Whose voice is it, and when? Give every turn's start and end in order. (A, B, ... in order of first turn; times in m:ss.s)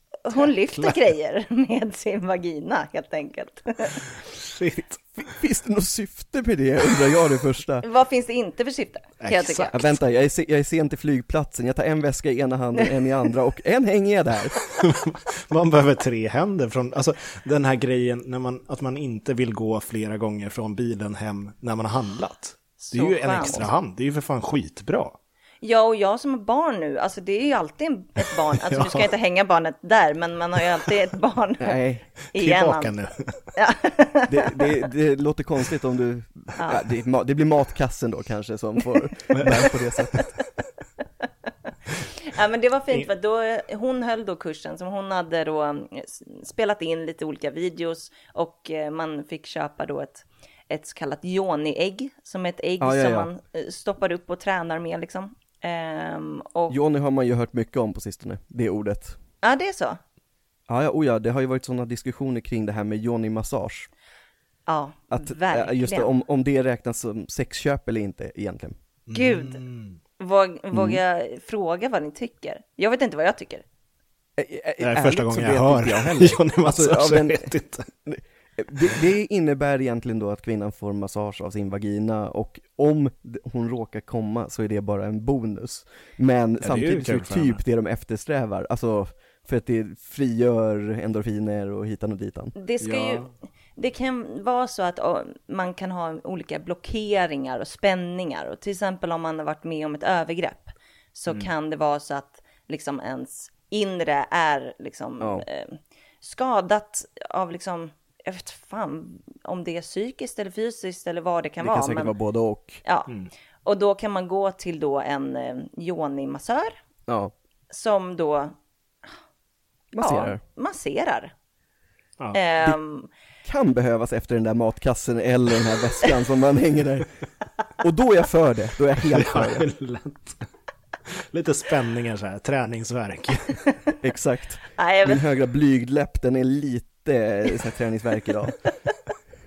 0:00.2-0:04.0 A
0:04.1-0:05.0 B
0:05.2-0:07.8 C
0:07.8-0:09.8 A
0:09.2-0:09.9 B
0:09.7-0:14.6 C
0:14.6-0:25.2 B
0:22.8-0:23.7 A
0:25.6-0:31.8 A
0:28.5-0:29.1 B
0:31.6-0:32.1 C
0:32.3-0:33.5 B
0:32.3-0:32.9 A
0:33.6-0:34.7 A
0:34.3-0:40.3 C
0:36.6-0:36.8 A
0:39.3-0:39.8 B
0:42.2-0:56.8 A
0:52.8-0:53.3 C
0:56.7-0:59.2 C
0:59.4-1:00.0 A
1:00.7-1:03.9 C
1:04.7-1:06.1 A
1:05.1-1:08.8 C
1:09.1-1:10.0 B
1:09.1-1:09.6 A
1:10.2-1:13.6 A
1:10.7-1:11.0 C
1:14.4-1:17.5 C
1:14.8-1:17.9 B
1:18.1-1:33.2 C
1:26.6-1:27.6 B
1:32.6-1:52.1 A
1:45.2-1:45.4 C
1:51.6-1:52.8 C
1:52.8-1:53.1 A
1:53.6-1:56.8 A
1:57.1-1:57.3 C
1:57.7-1:58.6 A
1:59.9-2:00.4 C
2:00.0-2:01.3 A
2:02.3-2:03.1 A
2:03.4-2:07.1 C
2:07.8-2:09.7 C
2:09.0-2:10.4 B
2:11.1-2:13.6 B
2:14.0-2:18.6 C
2:14.8-2:15.2 A